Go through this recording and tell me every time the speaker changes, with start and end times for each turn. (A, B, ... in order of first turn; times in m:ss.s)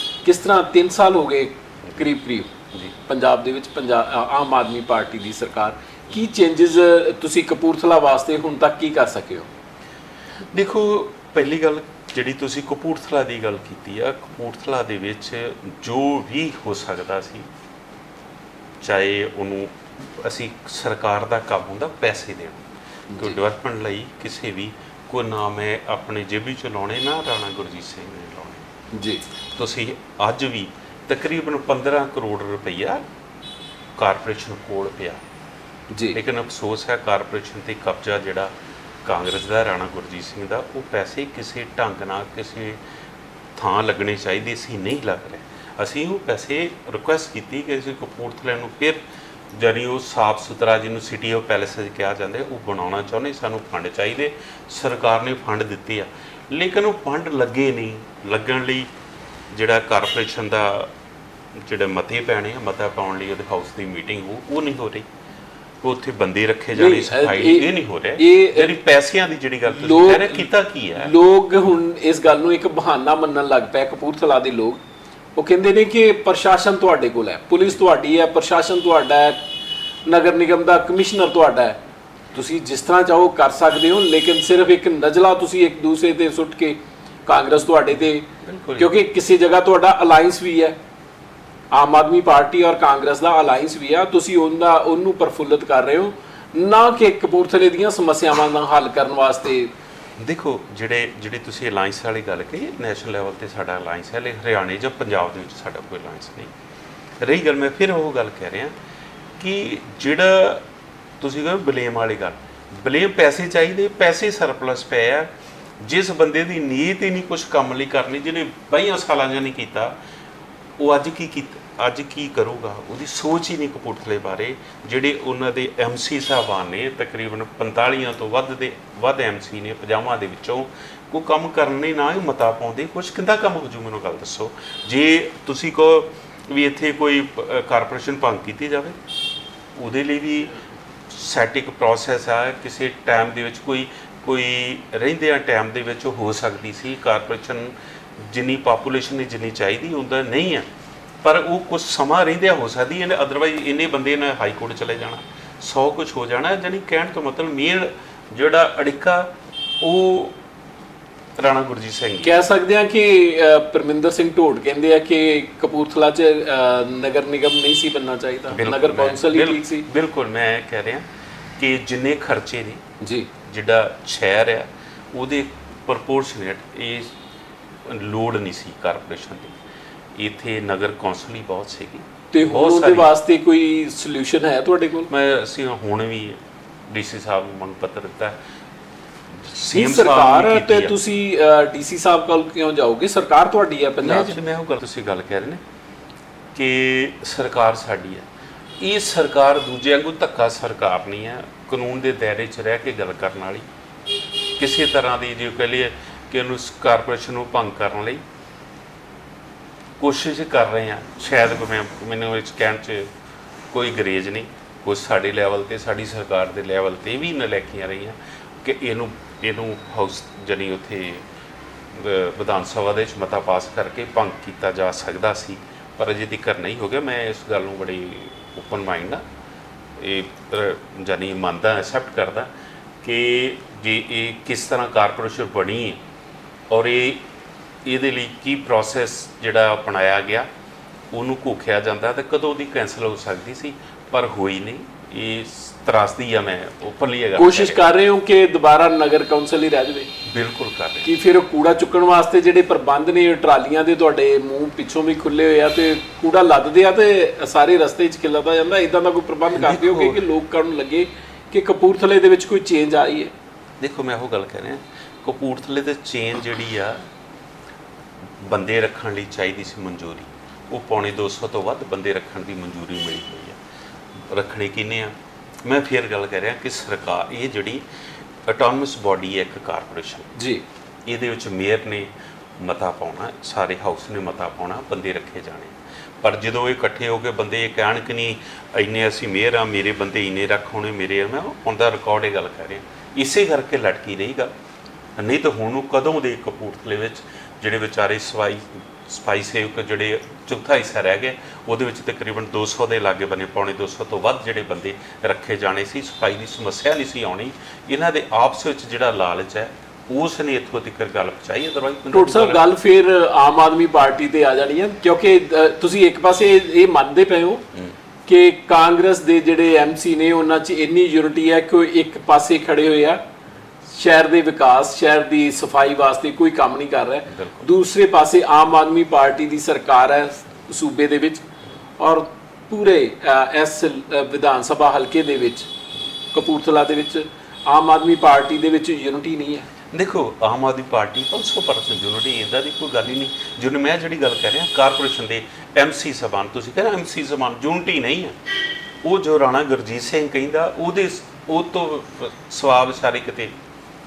0:00.2-0:02.5 A
0:03.0-0:09.5 A
0:10.5-0:17.5 B
0:18.8-0:22.6 B
0:23.1-0:23.4 A
0:23.2-0:28.6 B
0:28.9-0:29.2 A
0:29.5-0:33.0 B
0:34.0-0:35.2 B
0:35.9-0:36.2 A
0:36.1-0:38.5 B
0:39.0-0:42.8 B
0:43.6-0:49.0 B
0:49.5-0:58.9 B
0:59.5-1:00.9 B
1:01.5-1:05.1 B
1:05.8-1:11.1 B
1:06.7-1:08.8 A
1:09.7-1:14.8 A
1:15.4-1:19.4 A
1:20.0-1:21.8 A
1:22.3-1:30.8 A
1:28.4-1:28.9 B
1:31.7-1:39.7 A
1:40.2-1:46.5 B
1:47.2-1:48.7 B
1:49.4-1:50.6 B
1:51.2-1:55.3 B
1:55.8-1:59.9 B
2:00.8-2:19.0 B
2:19.7-2:30.7 B
2:31.2-2:40.4 B
2:41.4-2:42.3 B
2:42.2-2:49.8 A
2:48.5-2:52.8 B
2:53.0-2:53.3 A
2:53.4-2:57.1 B
2:57.8-2:59.6 B
3:00.2-3:03.1 B
3:02.3-3:05.1 A
3:05.1-3:08.4 B
3:09.3-3:11.0 B
3:09.7-3:14.4 A
3:14.0-3:15.6 B
3:16.5-3:18.3 B
3:18.8-3:23.6 B
3:24.6-3:28.2 B
3:30.0-3:33.1 B
3:33.7-3:41.2 B
3:41.9-3:49.2 B
3:50.0-3:52.5 B
3:53.0-3:56.0 B
3:56.7-3:57.2 B
3:57.8-4:00.5 B
4:01.1-4:07.8 B
4:07.4-4:10.1 A
4:10.2-4:11.1 B
4:11.0-4:23.3 A
4:19.5-4:20.2 B
4:23.8-4:27.1 B
4:28.4-4:33.6 B
4:34.2-4:37.8 B
4:38.4-4:40.3 B
4:40.4-4:40.6 A
4:41.0-4:54.5 B
4:55.2-5:12.7 B
5:12.1-5:17.6 A
5:18.3-5:23.2 A
5:23.9-5:31.4 A
5:27.3-5:27.6 B
5:32.0-5:35.7 A
5:36.3-5:39.7 A
5:39.9-5:48.4 B
5:49.0-5:53.5 B